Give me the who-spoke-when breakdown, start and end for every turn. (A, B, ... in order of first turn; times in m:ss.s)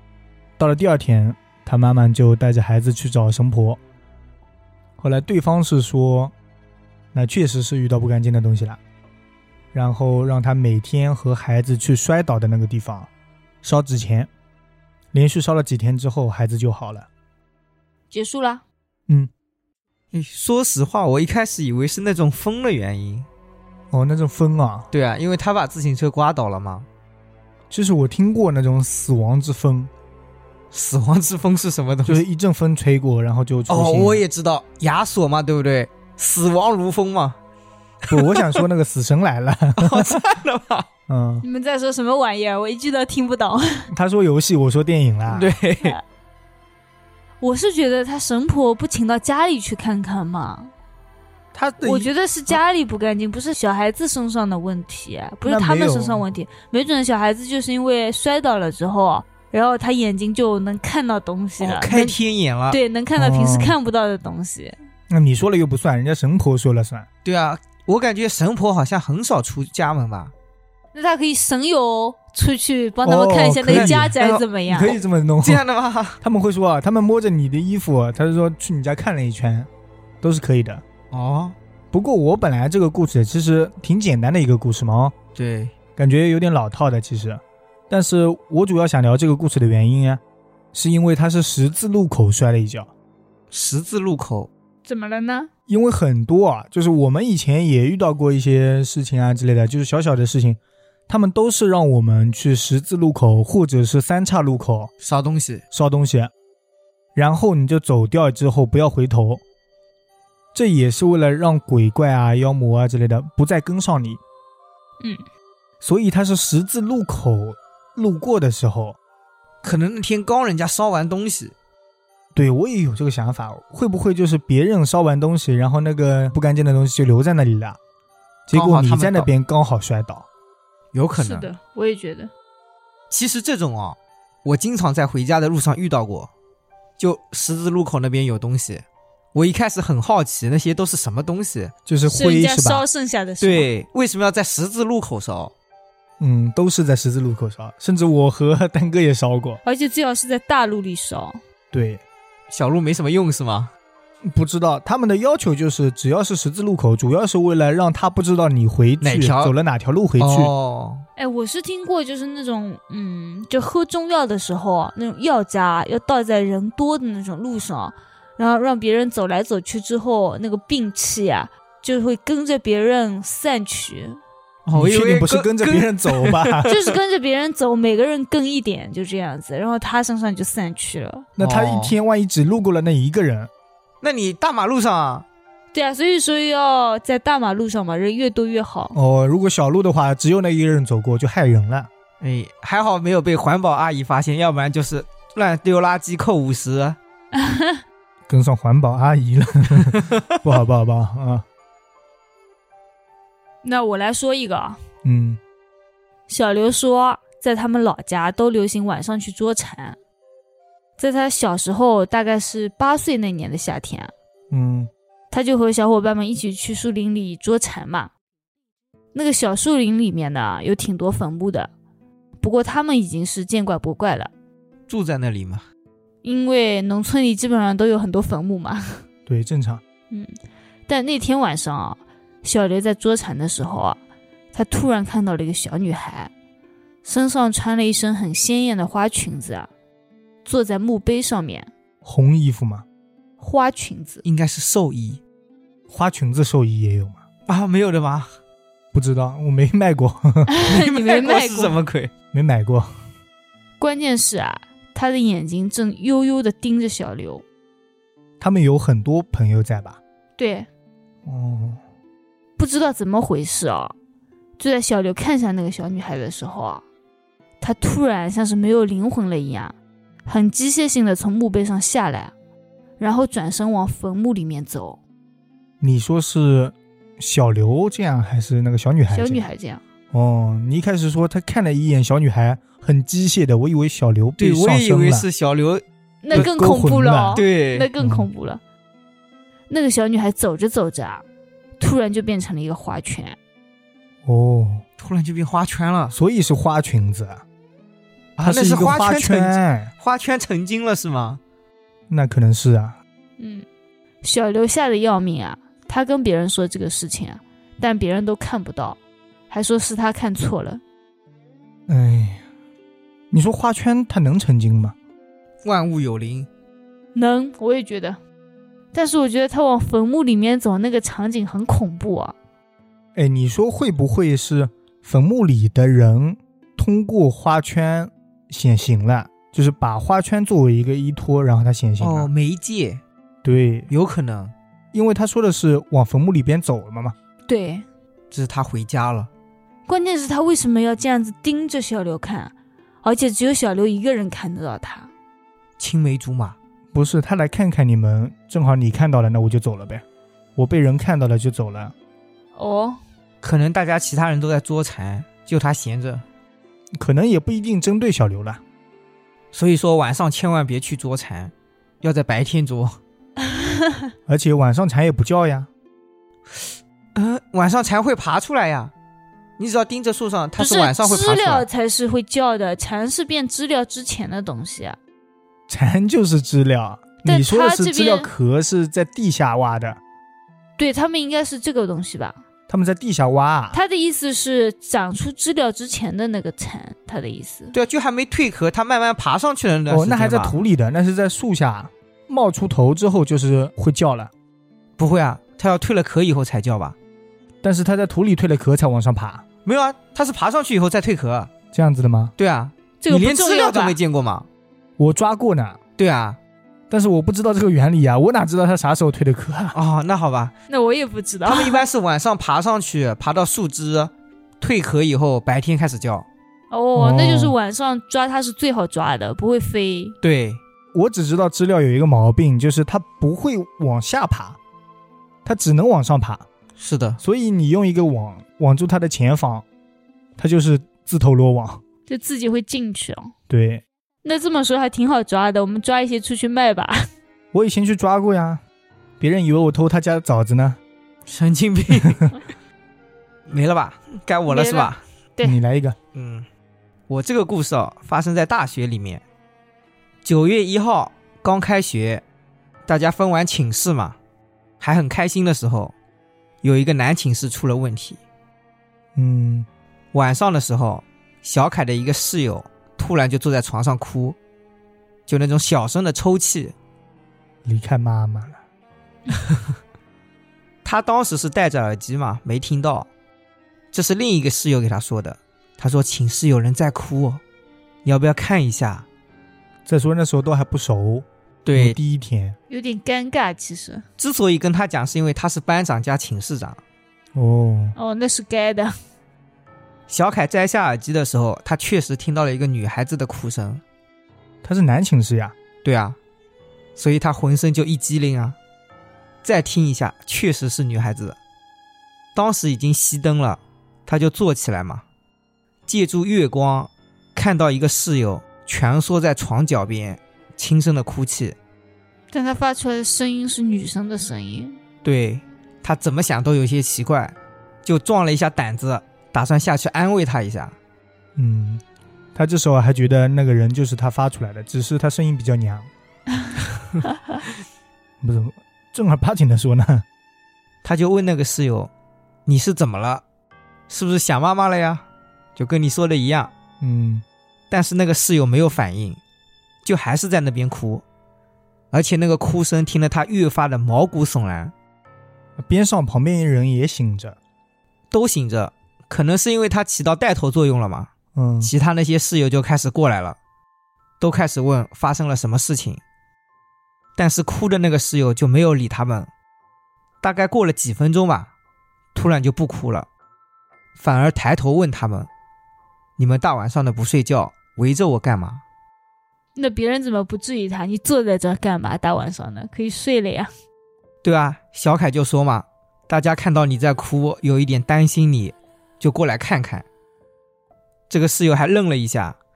0:00.6-0:03.8 A
0:05.0-0:06.3 A
0:07.1-0:08.8 A
0:09.7-0:13.1 A
0:13.6-0:14.3 A
0:15.1-0:17.1 A
0:18.1-0:18.6 B
0:20.1-0:23.3 C
0:23.9-0:24.9 A
0:24.9-0:26.9 C
0:27.7-0:29.9 A
0:30.7-0:32.2 C
0:32.1-0:34.2 A
0:33.7-0:37.4 C
0:38.1-0:38.6 C
0:38.1-0:40.2 A
0:39.8-0:40.9 C
0:41.1-0:41.4 A
0:41.4-0:43.9 B
0:43.9-0:45.5 A
0:45.3-0:46.0 C
0:47.4-0:50.7 B
0:51.5-0:52.1 A
0:51.8-1:02.2 B
0:55.4-0:56.2 A
1:01.6-1:02.8 C
1:02.7-1:04.8 B
1:03.2-1:03.8 A
1:05.1-1:07.1 A
1:07.2-1:10.3 C
1:10.9-1:15.0 B
1:13.0-1:14.2 A
1:13.7-1:14.4 C
1:14.7-1:15.6 A
1:15.4-1:16.2 C
1:16.2-1:19.7 A
1:20.2-1:20.8 A
1:21.1-1:21.6 C
1:21.9-1:25.2 A
1:25.4-1:25.7 C
1:26.0-1:30.2 A
1:30.7-1:32.9 A
1:33.5-1:34.5 C
1:34.8-1:35.5 B
1:35.7-1:44.9 A
1:45.0-1:45.6 C
1:45.7-1:46.3 A
1:47.2-1:49.4 A
1:50.5-1:54.2 A
1:55.8-1:59.0 A
1:59.6-2:01.6 C
2:02.3-2:07.8 A
2:08.5-2:10.3 A
2:08.5-2:09.3 C
2:10.9-2:11.5 C
2:11.2-2:12.3 B
2:13.1-2:16.3 C
2:17.0-2:21.7 C
2:21.9-2:22.9 A
2:22.0-2:23.7 B
2:23.4-2:25.5 C
2:26.2-2:29.6 A
2:29.6-2:31.4 B
2:31.7-2:32.0 A
2:32.5-2:33.7 C
2:34.3-2:40.5 A
2:39.0-2:39.5 C
2:40.2-2:41.0 C
2:41.2-2:54.2 B
2:54.7-2:56.8 C
2:54.7-2:56.7 A
2:56.7-3:01.3 B
3:01.4-3:03.5 A
3:01.4-3:02.0 C
3:04.0-3:05.3 C
3:05.7-3:09.0 B
3:08.9-3:11.9 A
3:12.2-3:17.0 C
3:17.3-3:17.8 B
3:18.3-3:21.4 A
3:19.9-3:20.4 C
3:23.6-3:24.8 B
3:25.0-3:25.4 A
3:26.3-3:30.0 B
3:31.0-3:34.1 B
3:34.5-3:34.9 A
3:35.3-3:38.1 B
3:39.1-3:41.7 B
3:42.4-3:44.3 B
3:44.9-3:45.6 C
3:46.2-3:49.0 B
3:49.3-3:49.8 A
3:50.9-3:54.0 B
3:54.5-3:56.3 B
3:57.0-3:59.7 B
4:00.4-4:01.7 B
4:02.0-4:02.9 A
4:03.4-4:04.2 B
4:04.2-4:05.2 C
4:05.9-4:07.2 A
4:07.5-4:08.3 C
4:08.9-4:10.5 A
4:10.5-4:11.8 B
4:10.7-4:12.1 C
4:12.3-4:12.9 A
4:13.8-4:17.4 B
4:18.4-4:20.0 A
4:20.4-4:20.7 B
4:21.3-4:21.8 A
4:22.6-4:23.9 B
4:24.6-4:26.8 B
4:27.6-4:29.8 B
4:30.3-4:32.3 B
4:33.0-4:35.0 B
4:35.8-4:39.5 A
4:39.1-4:39.8 B
4:40.1-4:45.3 A
4:44.4-4:45.8 C
4:46.2-4:48.6 B
4:46.3-4:47.4 A
4:47.3-4:47.9 C
4:48.0-4:48.3 A
4:49.7-4:51.2 B
4:51.8-4:53.4 B
4:54.2-4:54.8 A
4:55.0-4:56.2 C
4:56.1-4:57.4 A
4:58.4-4:59.9 A
4:58.4-5:01.4 C
5:02.1-5:03.0 A
5:03.4-5:03.6 B
5:04.2-5:09.0 B
5:09.5-5:10.8 B
5:11.9-5:12.4 A
5:13.3-5:15.0 A
5:15.6-5:16.5 C
5:17.1-5:18.2 B
5:18.9-5:22.4 B
5:23.2-5:32.3 A
5:32.0-5:33.0 C
5:33.4-5:33.9 A
5:33.9-5:34.5 C
5:34.9-5:37.2 A
5:37.5-5:37.9 B
5:38.3-5:39.3 C
5:39.9-5:45.1 B
5:45.8-5:46.6 C
5:46.9-5:50.0 A
5:50.6-5:51.9 A
5:52.6-5:53.0 B
5:53.4-5:56.2 C
5:57.0-5:58.6 A
5:59.5-6:03.0 C
6:03.4-6:04.1 B
6:04.3-6:05.7 A
6:06.5-6:08.9 C
6:09.6-6:11.7 C
6:10.6-6:15.0 B
6:15.7-6:20.0 A
6:17.2-6:18.3 B
6:20.8-6:22.4 B
6:22.7-6:23.8 A
6:23.7-6:27.8 B
6:27.7-6:30.6 C
6:29.9-6:34.3 A
6:35.0-6:37.0 C
6:37.6-6:39.4 A
6:39.6-6:41.5 C
6:41.7-6:42.4 A
6:42.4-6:44.5 C
6:43.0-6:44.0 B
6:45.0-6:45.8 A
6:46.0-6:46.4 C
6:46.9-6:49.8 A
6:49.7-6:50.5 C
6:50.7-6:51.8 B
6:51.5-6:56.3 C
6:56.7-7:00.2 B
6:57.0-6:57.6 A
7:00.2-7:00.6 C
7:00.9-7:04.6 A
7:05.4-7:06.5 A
7:06.8-7:07.2 C
7:07.2-7:09.6 A
7:10.4-7:11.8 A
7:12.1-7:13.3 B
7:13.5-7:13.8 A
7:14.2-7:17.1 B
7:17.5-7:18.6 A
7:19.2-7:20.8 A
7:21.3-7:22.3 C
7:23.5-7:25.0 C
7:24.5-7:25.6 B
7:25.4-7:26.0 A
7:26.1-7:26.5 C
7:27.1-7:29.2 C
7:30.2-7:32.2 C
7:32.9-7:34.2 C
7:34.8-7:35.9 C
7:36.6-7:38.2 C
7:39.2-7:39.7 A
7:40.1-7:44.4 C
7:45.3-7:46.8 C
7:47.6-7:48.6 A
7:50.8-7:53.1 C
7:53.9-7:57.4 C
7:58.0-7:59.1 C
7:59.9-8:02.6 A
8:01.6-8:02.0 C
8:02.7-8:04.0 B
8:04.2-8:06.8 C
8:07.4-8:08.0 A
8:08.0-8:08.9 B
8:10.1-8:13.8 C
8:14.6-8:15.6 A
8:15.8-8:16.2 C
8:17.0-8:18.6 C
8:19.4-8:21.4 C
8:22.4-8:25.0 C
8:25.9-8:31.6 C
8:32.3-8:34.8 B
8:35.0-8:40.8 C
8:41.4-8:41.8 A
8:42.4-8:45.9 A
8:48.2-8:50.1 A
8:50.8-8:51.9 C
8:52.5-8:53.2 C
8:53.9-8:55.0 C
8:55.6-8:56.5 C
8:56.8-8:57.2 A
8:57.7-8:59.2 C
8:59.8-9:01.0 C
9:01.9-9:04.7 C
9:05.6-9:07.4 A
9:08.1-9:11.1 C
9:11.4-9:11.7 A
9:11.6-9:13.4 C
9:14.2-9:16.0 C
9:17.2-9:19.3 C
9:20.2-9:21.5 C
9:22.2-9:23.1 C
9:24.0-9:25.3 C
9:26.2-9:28.6 C
9:29.6-9:33.5 B
9:34.2-9:39.8 C
9:41.1-9:42.4 C